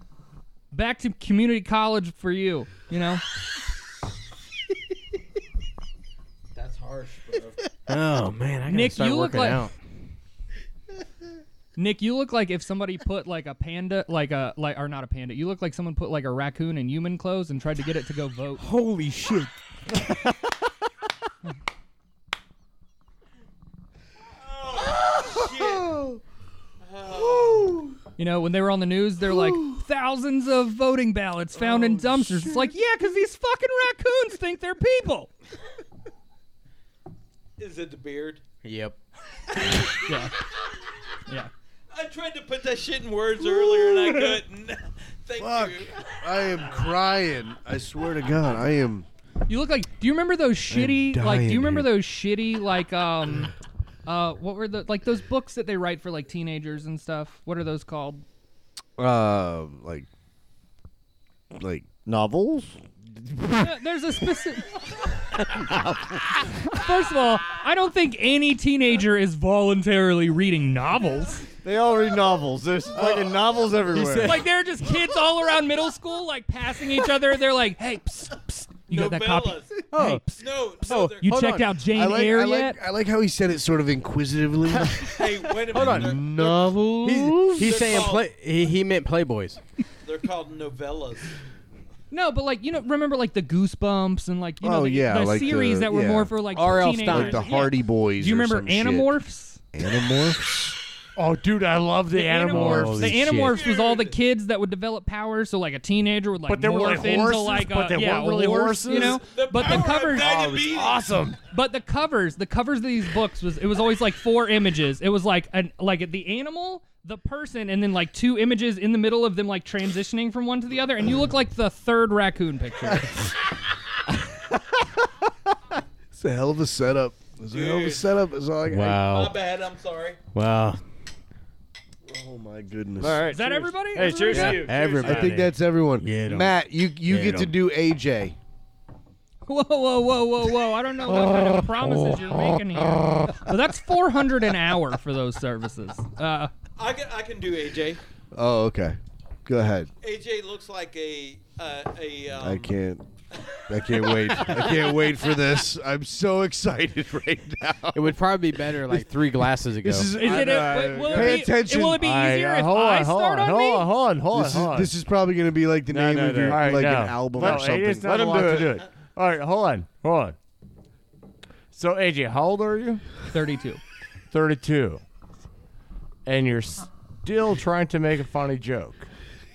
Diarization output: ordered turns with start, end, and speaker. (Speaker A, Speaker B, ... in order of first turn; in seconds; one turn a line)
Speaker A: 0.7-3.2
Speaker B: 6.5-7.7
Speaker C: 7.9-9.7
Speaker A: 8.7-9.7
Speaker A: 11.8-18.6
Speaker C: 18.6-19.5
Speaker B: 24.4-26.0
Speaker D: 25.0-26.2
Speaker B: 26.8-27.8
Speaker D: 27.1-27.9
Speaker A: 28.2-35.3
Speaker D: 29.3-29.8
Speaker D: 31.8-32.5
Speaker B: 37.6-38.4
Speaker C: 38.6-39.0
Speaker A: 39.9-40.3
Speaker B: 41.9-46.7
Speaker D: 45.4-49.1
Speaker A: 49.5-53.5
Speaker D: 50.7-51.9
Speaker A: 54.0-58.2
Speaker D: 59.0-60.1
Speaker D: 61.5-61.9
Speaker E: 62.0-62.8
Speaker A: 63.5-64.8
Speaker E: 65.4-66.4
Speaker A: 66.5-71.5
Speaker E: 71.6-74.4
Speaker C: 72.9-74.5
Speaker A: 74.2-80.4
Speaker B: 78.9-79.8
Speaker C: 79.9-81.9
Speaker B: 80.4-81.4
Speaker A: 81.2-82.8
Speaker D: 81.9-87.8
Speaker C: 84.8-85.1
Speaker B: 85.0-86.8
Speaker C: 85.7-86.3
Speaker C: 87.0-89.6
Speaker B: 87.5-88.3
Speaker B: 90.0-91.3
Speaker A: 92.1-99.6
Speaker D: 94.6-99.2
Speaker C: 96.5-97.7
Speaker D: 99.7-100.7
Speaker F: 101.2-103.2
Speaker A: 102.1-110.4
Speaker C: 102.5-103.6
Speaker B: 103.3-104.2
Speaker F: 106.5-111.4
Speaker B: 108.9-111.0
Speaker A: 111.5-123.3
Speaker D: 126.1-129.0
Speaker B: 127.5-128.1
Speaker C: 128.7-129.3
Speaker B: 129.0-130.2
Speaker C: 130.3-130.8
Speaker D: 132.0-133.3
Speaker E: 133.0-134.0
Speaker A: 133.3-134.7
Speaker B: 133.9-135.4
Speaker C: 134.1-137.5
Speaker D: 135.0-138.3
Speaker A: 139.4-146.5
Speaker B: 146.8-148.0
Speaker D: 148.3-149.9
Speaker B: 150.0-152.8
Speaker D: 152.4-153.1
Speaker B: 153.5-155.0
Speaker D: 153.7-159.2
Speaker C: 157.9-160.2
Speaker D: 159.8-162.0
Speaker A: 160.1-163.9
Speaker E: 160.2-161.5
Speaker F: 162.0-164.9
Speaker D: 164.3-167.9
Speaker E: 165.9-168.8
Speaker F: 166.4-170.4
Speaker F: 171.7-173.0
Speaker A: 173.3-173.8
Speaker F: 174.3-175.0
Speaker F: 176.2-179.1